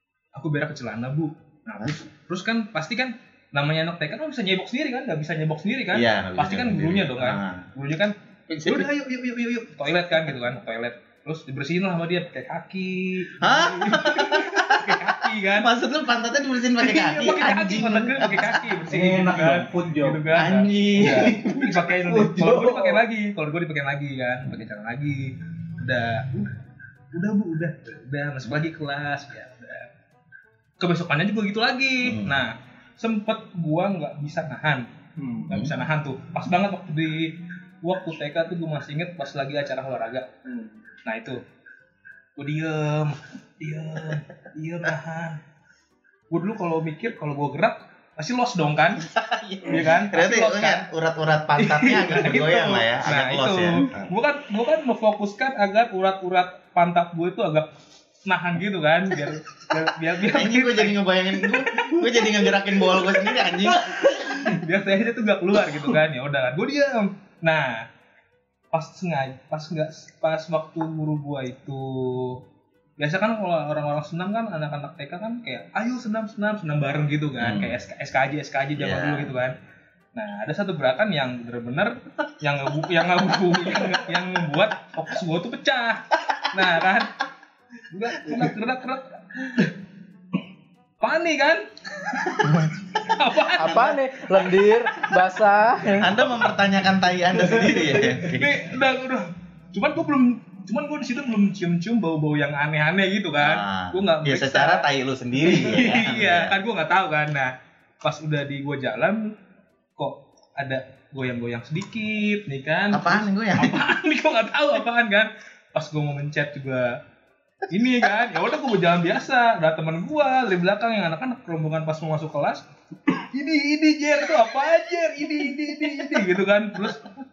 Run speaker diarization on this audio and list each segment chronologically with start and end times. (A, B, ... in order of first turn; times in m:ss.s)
0:00.4-0:15.7 A
0:05.9-0:07.7 B
0:08.5-0:08.9 B
0:13.4-0:18.8 B
0:16.8-0:26.5 A
0:18.9-0:20.4 C
0:20.3-0:21.8 B
0:21.0-0:21.3 C
0:21.9-0:23.0 C
0:27.1-0:29.9 A
0:30.8-0:40.3 A
0:32.0-0:32.4 B
0:35.5-0:35.7 B
0:40.4-0:40.8 C
0:41.0-0:41.4 A
0:42.4-0:45.4 A
0:46.3-0:49.1 A
0:49.1-0:54.1 B
0:49.6-0:50.9 A
0:51.6-0:57.7 A
0:58.3-1:01.0 A
1:00.2-1:04.2 B
1:04.0-1:04.6 C
1:04.4-1:07.8 A
1:08.7-1:12.4 A
1:13.0-1:19.6 A
1:17.4-1:17.8 B
1:18.8-1:19.3 B
1:20.2-1:27.2 A
1:27.9-1:29.8 A
1:31.0-1:31.7 A
1:33.0-1:34.0 A
1:33.6-1:36.2 D
1:35.9-1:38.8 B
1:38.0-1:44.9 A
1:43.4-1:46.6 B
1:45.4-1:49.4 A
1:50.0-1:57.0 A
1:52.9-1:53.8 B
1:57.7-2:07.1 A